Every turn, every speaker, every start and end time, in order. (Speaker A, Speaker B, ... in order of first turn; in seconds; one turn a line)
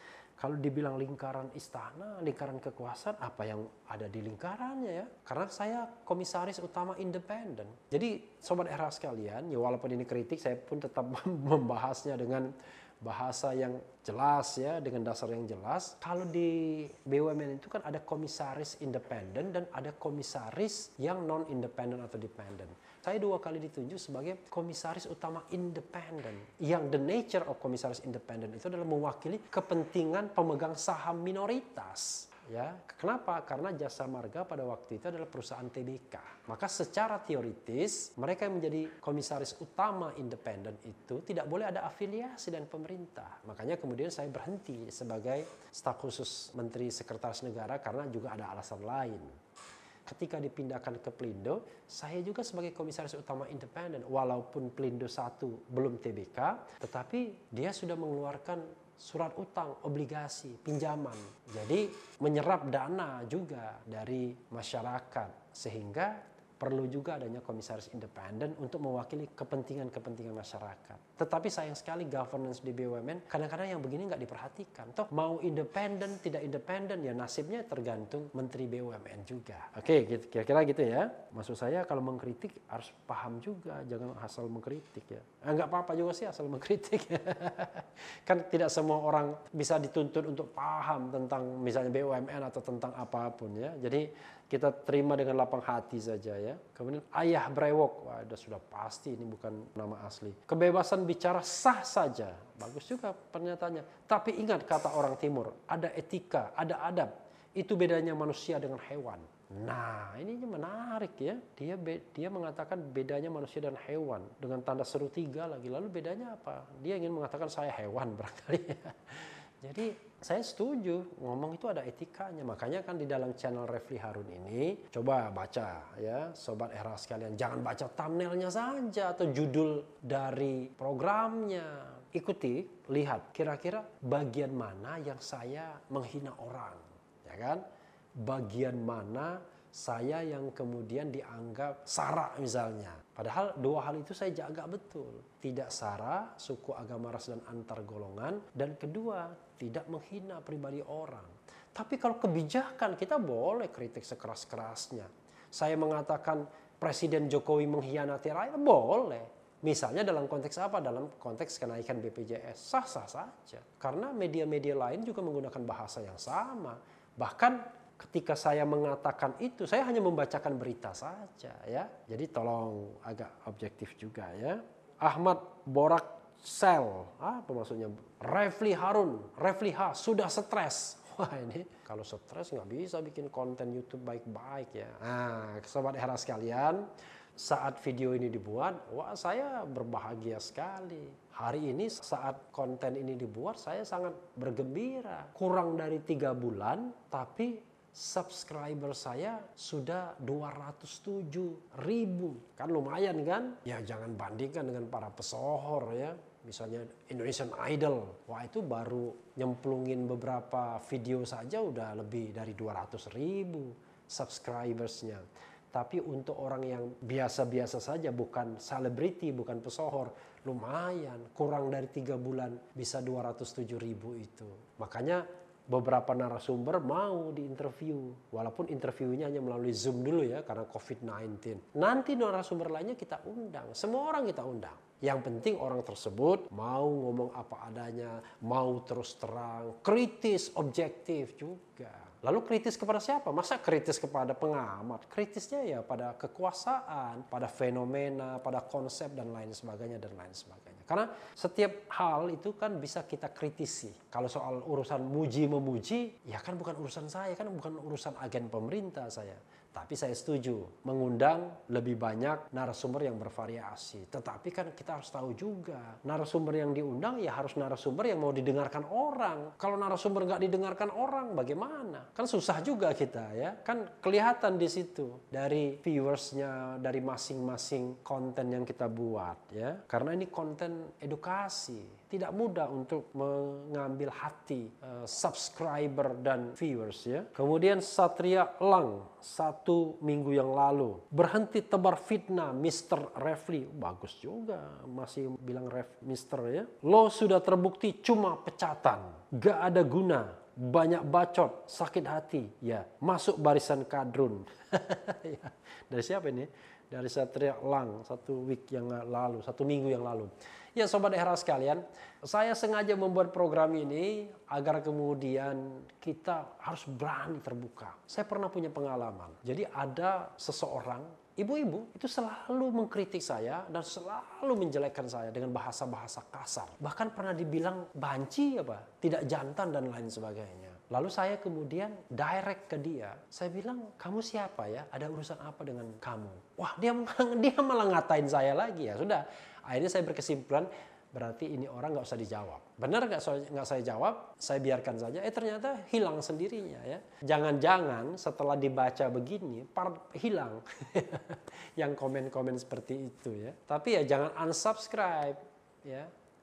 Speaker A: 0.4-49.3
Speaker A: 50.1-137.6
Speaker A: 138.2-186.9
Speaker A: 187.4-356.1